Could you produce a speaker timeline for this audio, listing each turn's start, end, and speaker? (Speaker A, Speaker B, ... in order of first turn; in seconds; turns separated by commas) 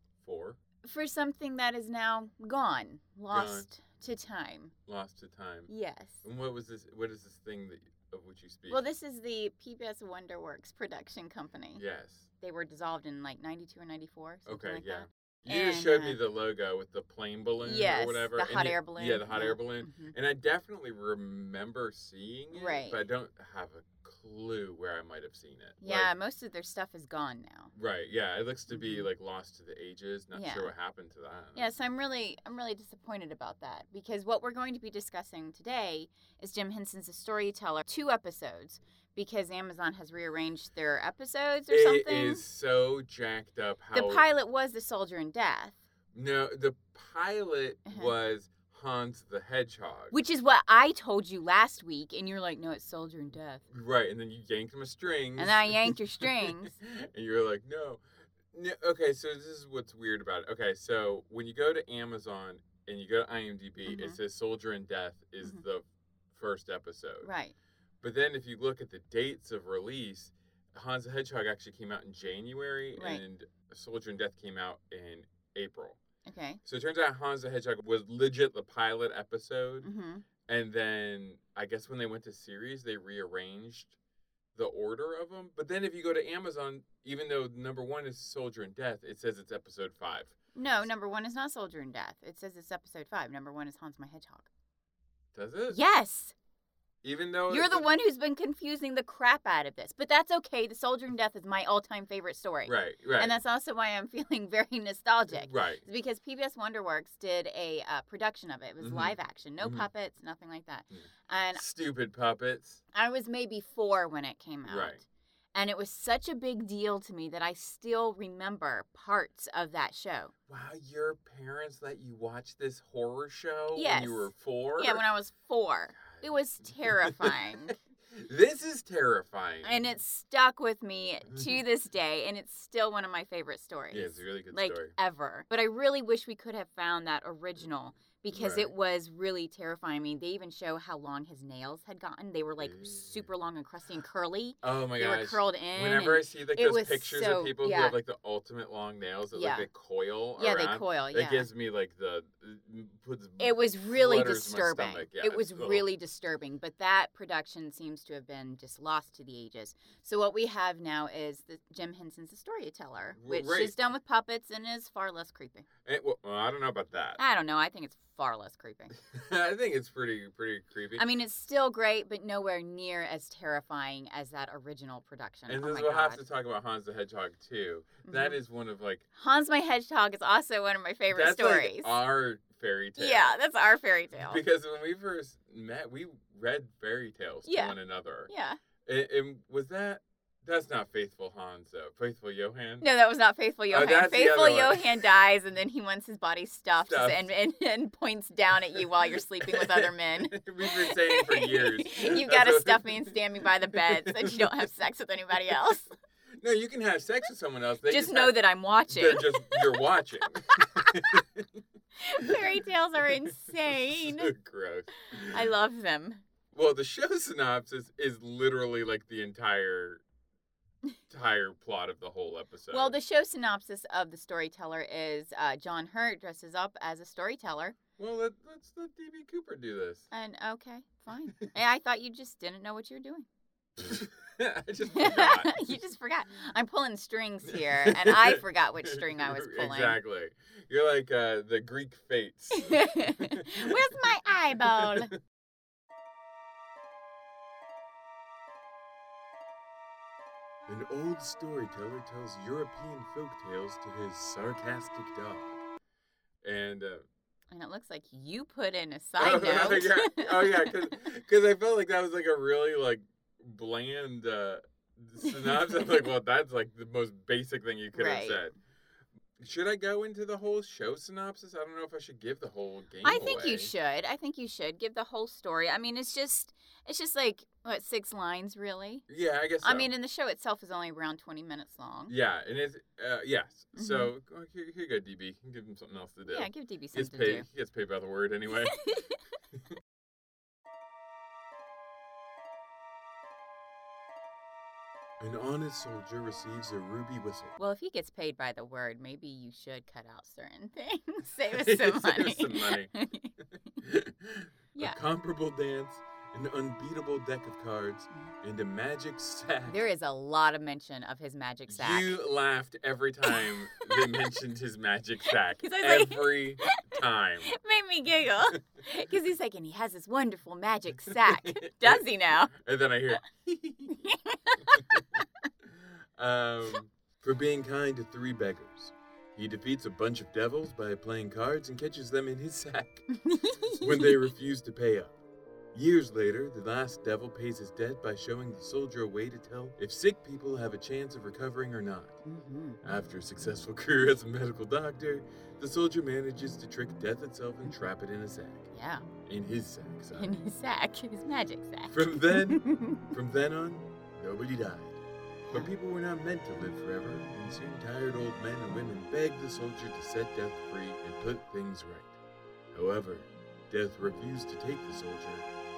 Speaker A: 0.2-0.6, Speaker B: 0.8-4.7, Speaker A: 3.3-3.7, Speaker A: 4.9-5.7, Speaker B: 5.7-6.2, Speaker A: 6.2-8.8, Speaker B: 8.7-11.8, Speaker A: 11.8-12.3, Speaker B: 12.4-16.2, Speaker A: 14.4-26.1, Speaker B: 17.6-20.1, Speaker B: 22.5-23.0, Speaker B: 25.8-27.7, Speaker A: 27.7-31.7, Speaker B: 28.7-29.1, Speaker B: 30.3-30.7, Speaker B: 31.5-42.4, Speaker A: 41.7-44.3, Speaker B: 43.9-45.8, Speaker A: 46.1-50.1, Speaker B: 47.9-48.1, Speaker B: 50.1-53.6, Speaker A: 53.7-58.0, Speaker B: 55.4-56.8, Speaker A: 58.5-67.3, Speaker B: 63.9-64.2, Speaker B: 67.2-67.5, Speaker A: 68.0-76.0, Speaker B: 73.0-73.2, Speaker B: 76.2-76.6, Speaker A: 76.6-79.9, Speaker B: 79.8-80.2, Speaker A: 80.5-84.0, Speaker A: 84.5-90.3, Speaker B: 90.5-94.5, Speaker A: 95.3-95.8, Speaker B: 95.7-96.3, Speaker A: 97.0-97.8, Speaker B: 97.5-111.6, Speaker A: 102.7-103.3, Speaker A: 105.3-105.8, Speaker A: 108.8-109.9, Speaker A: 110.9-112.8, Speaker B: 112.9-115.0, Speaker A: 114.7-115.0, Speaker B: 115.5-120.3, Speaker A: 120.5-125.0, Speaker B: 123.7-127.7, Speaker A: 126.0-129.8, Speaker B: 129.6-147.9, Speaker A: 131.3-131.6, Speaker A: 133.9-134.9, Speaker A: 138.3-138.7, Speaker A: 142.6-143.3, Speaker A: 144.6-155.9, Speaker B: 149.3-149.7, Speaker B: 150.4-151.5, Speaker B: 153.4-165.7, Speaker A: 163.2-163.7, Speaker A: 165.8-167.2, Speaker B: 167.2-168.9, Speaker A: 169.0-171.0, Speaker B: 170.9-176.2, Speaker A: 175.5-179.0, Speaker B: 178.1-178.4, Speaker B: 179.1-182.0, Speaker A: 181.1-183.3, Speaker B: 183.0-184.4, Speaker A: 184.1-188.3, Speaker B: 187.4-187.8, Speaker B: 188.3-188.6, Speaker A: 188.8-192.8, Speaker B: 192.8-205.9, Speaker A: 193.7-195.0, Speaker A: 196.8-197.3, Speaker A: 198.7-204.7, Speaker A: 206.4-211.5, Speaker B: 207.9-209.8, Speaker B: 210.5-211.2, Speaker B: 212.0-214.3, Speaker A: 212.2-212.6, Speaker A: 213.1-215.5, Speaker B: 215.2-216.2, Speaker A: 216.5-220.0, Speaker A: 221.1-222.9, Speaker B: 222.7-227.8, Speaker A: 228.0-230.1, Speaker B: 230.1-233.3, Speaker A: 233.8-235.6, Speaker B: 234.9-240.0, Speaker A: 237.5-245.2, Speaker B: 242.5-245.1, Speaker A: 250.7-255.6, Speaker A: 256.4-257.0, Speaker B: 257.5-260.9, Speaker A: 259.2-268.5, Speaker B: 265.2-266.1, Speaker B: 267.9-268.4, Speaker A: 269.4-273.7, Speaker B: 273.0-279.0, Speaker A: 279.1-279.9, Speaker B: 279.6-282.1, Speaker A: 282.1-288.8, Speaker B: 283.7-284.1, Speaker B: 286.3-287.4, Speaker B: 288.5-289.2, Speaker A: 295.2-297.6, Speaker B: 297.6-303.3, Speaker A: 301.5-302.9, Speaker A: 303.8-309.8, Speaker B: 304.7-305.0, Speaker B: 309.7-312.1, Speaker A: 311.7-317.5, Speaker B: 313.3-314.0, Speaker B: 315.2-322.5, Speaker A: 320.9-324.0, Speaker B: 323.9-325.5, Speaker A: 324.6-333.0, Speaker B: 333.1-334.3, Speaker A: 333.7-335.1, Speaker A: 335.7-342.2, Speaker B: 342.2-342.8, Speaker A: 342.8-348.7, Speaker B: 348.7-349.0, Speaker A: 349.2-350.3, Speaker B: 350.1-353.1, Speaker A: 351.9-354.9, Speaker B: 355.4-355.7, Speaker A: 355.5-362.2, Speaker A: 362.7-365.5